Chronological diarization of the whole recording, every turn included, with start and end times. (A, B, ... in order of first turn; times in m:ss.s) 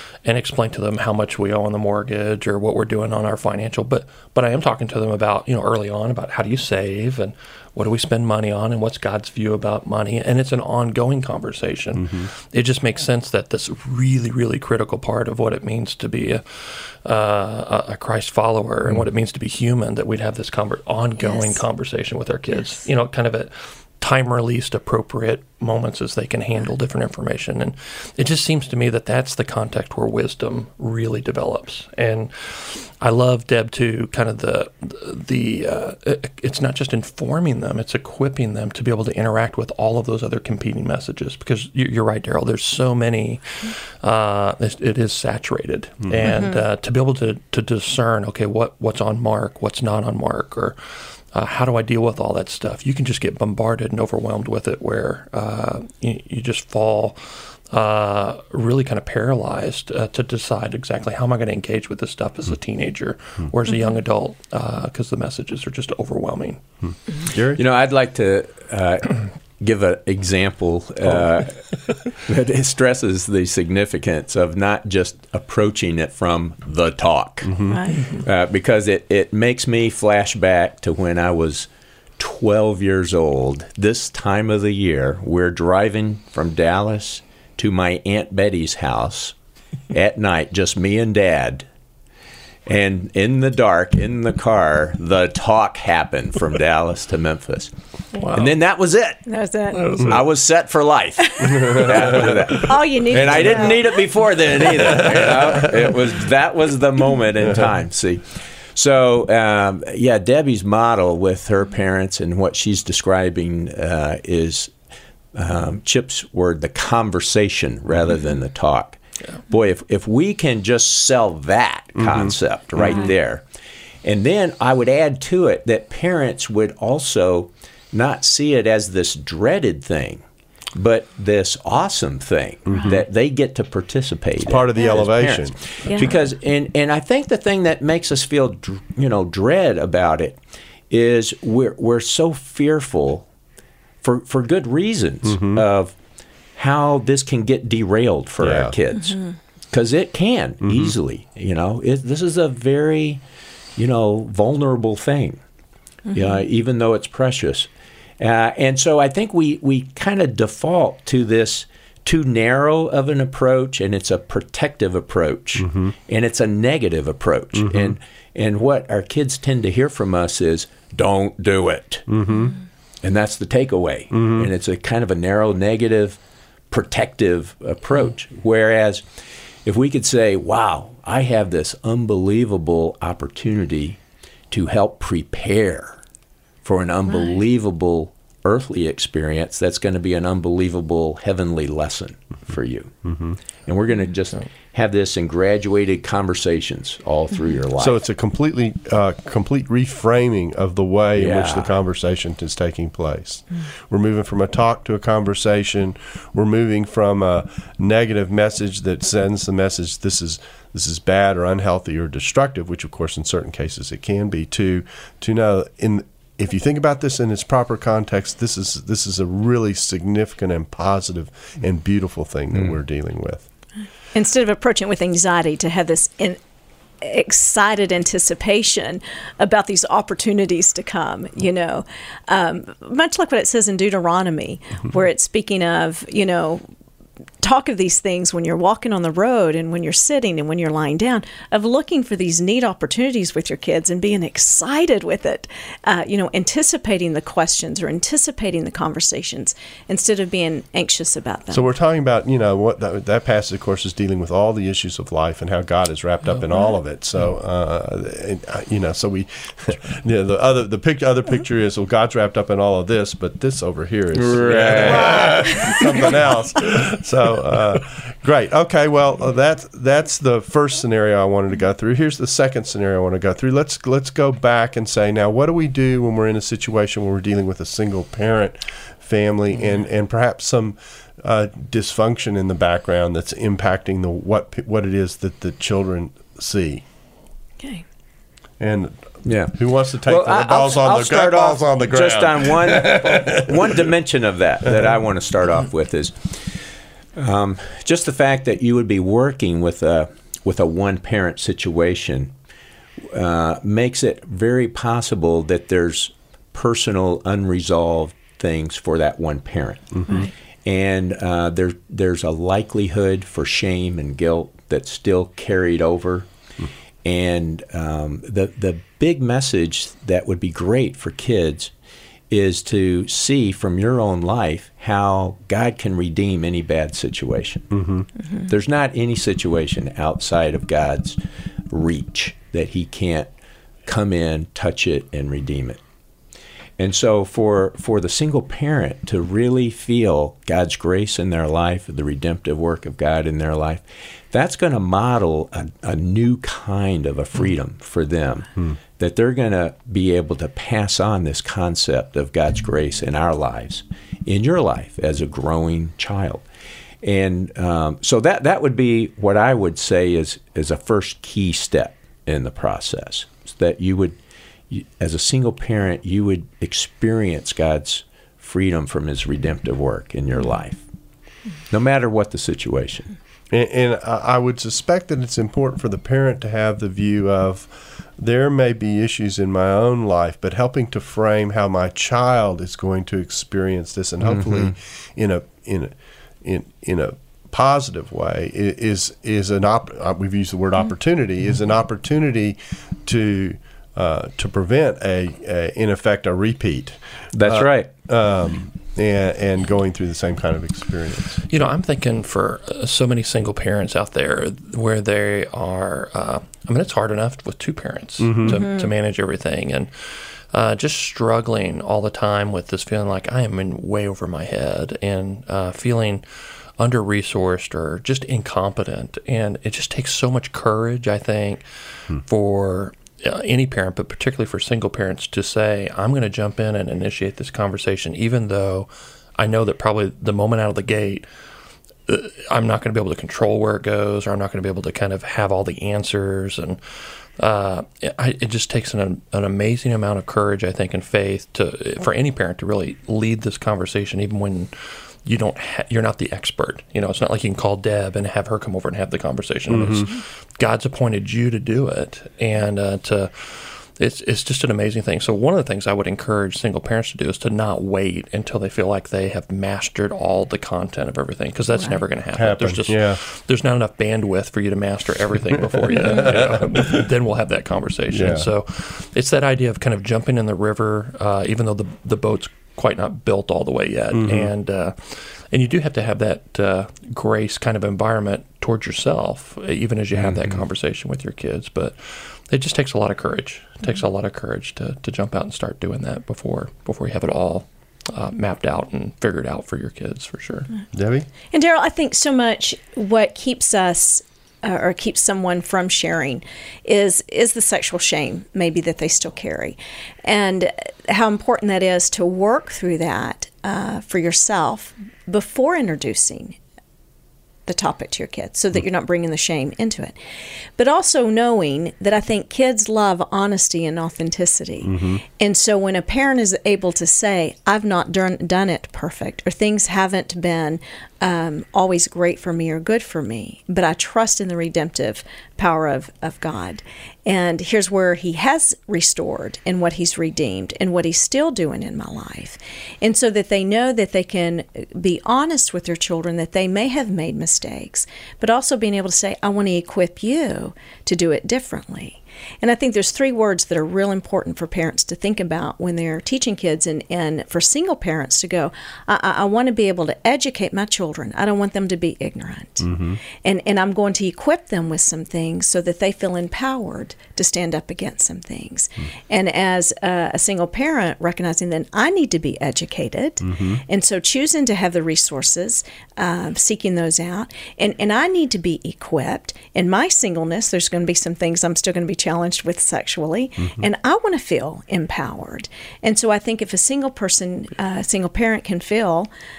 0:00.2-0:50.8 A
0:12.0-0:12.3 B
0:21.2-0:21.6 C
0:46.0-0:46.3 B
0:46.2-0:46.6 C
0:51.3-1:06.6 A
1:07.3-1:07.6 B
1:07.5-1:17.6 D
1:17.4-1:17.8 B
1:17.7-1:18.1 C
1:18.1-1:29.3 D
1:29.9-1:31.6 D
1:32.7-1:37.7 D
1:38.2-1:38.5 A
1:38.3-1:39.2 D
1:39.2-1:39.9 C
1:39.8-1:40.2 A
1:40.0-1:54.7 D
1:42.5-1:44.0 C
1:55.3-1:59.0 D
1:59.5-2:03.4 D
2:02.0-2:03.0 B
2:04.0-2:10.2 D
2:10.7-2:20.4 D
2:12.7-2:13.0 B
2:14.4-2:15.5 B
2:15.8-2:16.1 C
2:20.9-2:23.2 D
2:24.0-2:25.9 D
2:25.2-2:25.6 B
2:26.6-2:29.2 D
2:28.4-2:28.7 B
2:29.7-2:33.2 D
2:30.6-2:30.9 B
2:33.8-2:35.4 D
2:36.1-2:52.1 D
2:45.6-2:45.9 B
2:47.6-2:48.0 B
2:52.1-2:52.5 B
2:53.0-2:56.2 D
2:54.1-2:54.5 B
2:56.7-2:59.0 D
2:59.6-3:04.0 D
3:04.5-3:06.0 D
3:06.6-3:13.1 D
3:13.1-3:13.4 B
3:13.6-3:18.0 D
3:17.8-3:43.4 B
3:21.2-3:21.7 D
3:44.1-3:46.4 C
3:47.0-3:56.6 C
3:57.4-4:11.7 C
4:11.5-4:46.8 B
4:24.1-4:25.6 D
4:25.1-4:25.8 C
4:48.6-4:49.0 B
4:49.2-4:56.6 D
4:49.5-4:53.9 B
4:57.2-5:02.3 D
5:03.1-5:10.0 D
5:10.6-5:16.3 D
5:17.0-5:21.7 D
5:22.3-5:27.8 D
5:27.7-5:28.0 B
5:28.5-5:31.2 D
5:31.7-5:33.3 D
5:33.8-5:35.8 D
5:36.8-5:56.4 D
5:57.0-6:04.2 D
6:04.7-6:10.8 D
6:11.7-6:13.1 D
6:13.5-6:41.4 B
6:37.3-6:37.9 D
6:41.4-6:56.2 A
6:48.2-6:48.6 B
6:56.8-7:11.3 A
7:12.1-7:16.8 A
7:17.4-8:10.7 A
7:29.7-7:30.1 B
7:42.3-7:43.2 B
7:45.9-7:47.0 B
7:48.1-7:48.5 B
7:54.1-7:54.5 B
8:00.3-8:00.5 D
8:10.9-8:11.3 B
8:11.5-8:26.6 C
8:27.7-8:30.1 C
8:30.8-9:39.3 C
8:34.8-8:35.2 B
9:12.8-9:13.2 B
9:23.4-9:23.8 B